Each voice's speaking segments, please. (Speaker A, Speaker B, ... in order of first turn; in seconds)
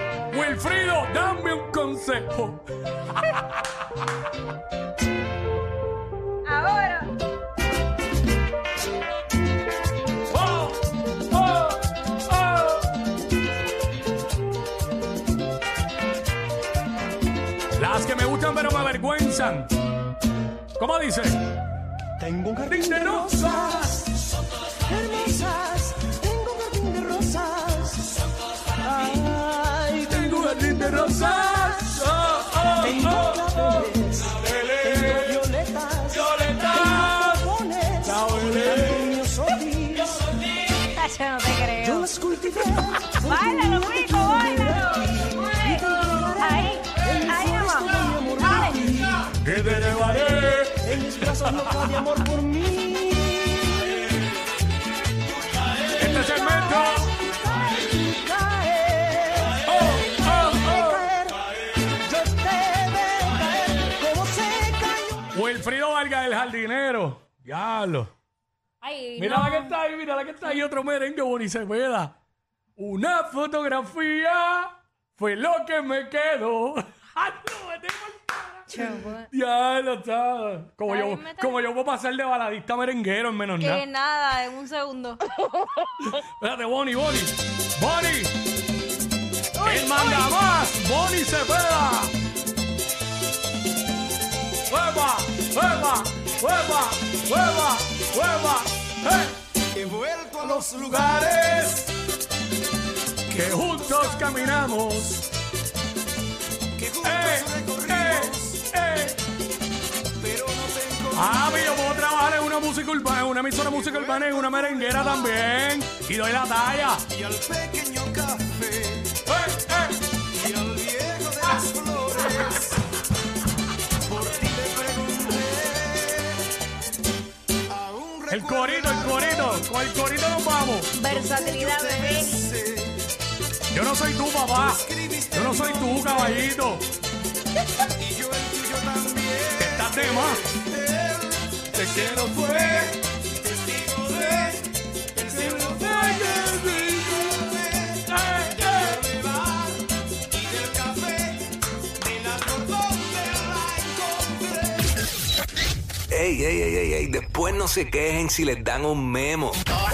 Speaker A: 0.3-2.6, 10.3-12.9, 17.8-19.7, 20.8-21.4, 22.6-24.1, 30.0-35.5, 36.1-39.2, 49.2-52.1, 55.9-57.1, 59.6-61.1, 65.3-68.1, 69.2-72.2, 72.8-83.8, 86.0-88.4, 89.6-92.1, 94.7-99.3, 100.5-101.7, 103.3-105.2, 107.0-109.2, 111.1-117.0, 119.3-120.1, 128.3-131.0, 133.7-136.9, 139.6-140.6, 141.7-143.0, 145.2-147.4, 148.1-149.1
Speaker B: 6.5-7.2, 40.8-42.1, 43.2-45.8, 46.4-48.9, 68.8-69.8, 78.7-79.3, 80.9-81.7, 83.6-85.2, 89.6-90.4, 130.9-132.5
Speaker C: 22.2-23.8, 24.9-28.1, 29.1-30.5, 32.8-34.2, 34.8-40.0, 41.8-49.1, 51.2-53.8, 58.2-59.6, 60.5-61.3, 62.1-65.2, 99.7-101.7, 103.5-104.8, 106.8-108.6, 110.2-111.9, 113.7-115.4, 117.1-119.2, 120.3-122.8, 124.1-126.4, 127.7-129.6, 131.1-133.1, 134.6-136.4, 138.0-148.0, 148.6-149.8, 150.3-151.4, 152.0-154.9
Speaker D: 156.1-159.6